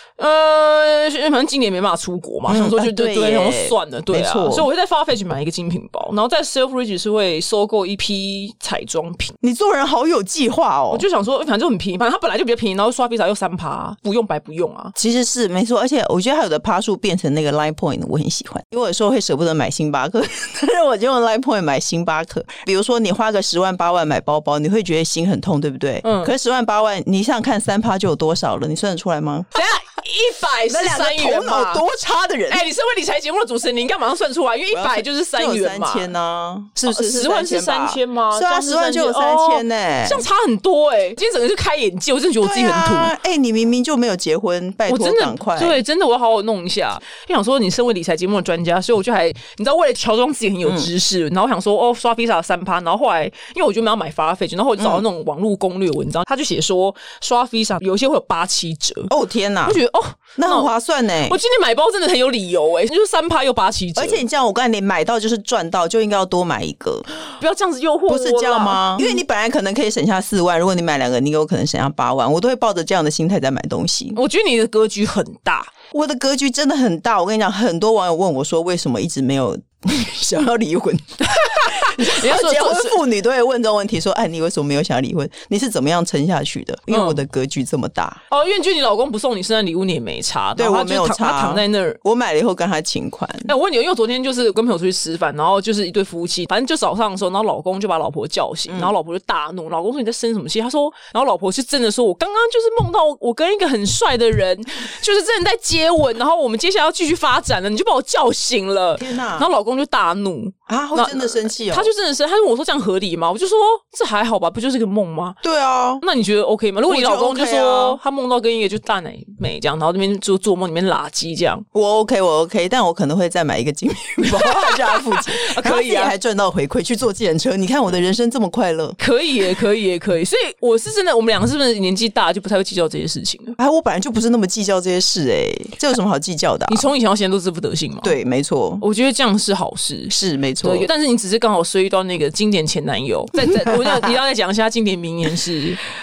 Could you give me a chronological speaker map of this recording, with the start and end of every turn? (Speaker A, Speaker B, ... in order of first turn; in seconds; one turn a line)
Speaker A: 0.2-9.3
Speaker B: 2.5-4.7
Speaker B: 9.4-11.0
Speaker A: 10.9-14.9
Speaker B: 15.0-29.5
Speaker A: 26.0-26.3
Speaker A: 29.5-31.8
Speaker B: 30.7-32.6
Speaker A: 32.5-36.1
Speaker B: 34.7-40.2
Speaker A: 36.9-43.1
Speaker B: 42.4-45.8
Speaker A: 44.9-59.1
Speaker B: 50.6-50.9
Speaker B: 54.8-55.0
Speaker B: 59.1-59.8
Speaker A: 59.6-60.7
Speaker B: 60.4-61.4
Speaker A: 61.2-64.2
Speaker B: 64.0-67.1
Speaker A: 67.4-69.2
Speaker B: 68.1-74.2
Speaker A: 74.1-75.7
Speaker B: 75.9-88.2
Speaker A: 81.3-83.0
Speaker A: 86.9-87.2
Speaker A: 88.3-92.0
Speaker B: 90.5-93.5
Speaker A: 93.5-115.4
Speaker B: 98.7-98.9
Speaker B: 109.0-109.5
Speaker B: 110.7-111.9
Speaker B: 115.4-116.0
Speaker A: 116.0-121.6
Speaker B: 116.9-118.0
Speaker B: 121.7-129.0
Speaker A: 124.3-126.1
Speaker A: 129.0-133.6
Speaker B: 133.6-136.9
Speaker A: 136.7-138.2
Speaker B: 138.0-138.8
Speaker A: 138.8-145.8
Speaker B: 140.1-140.9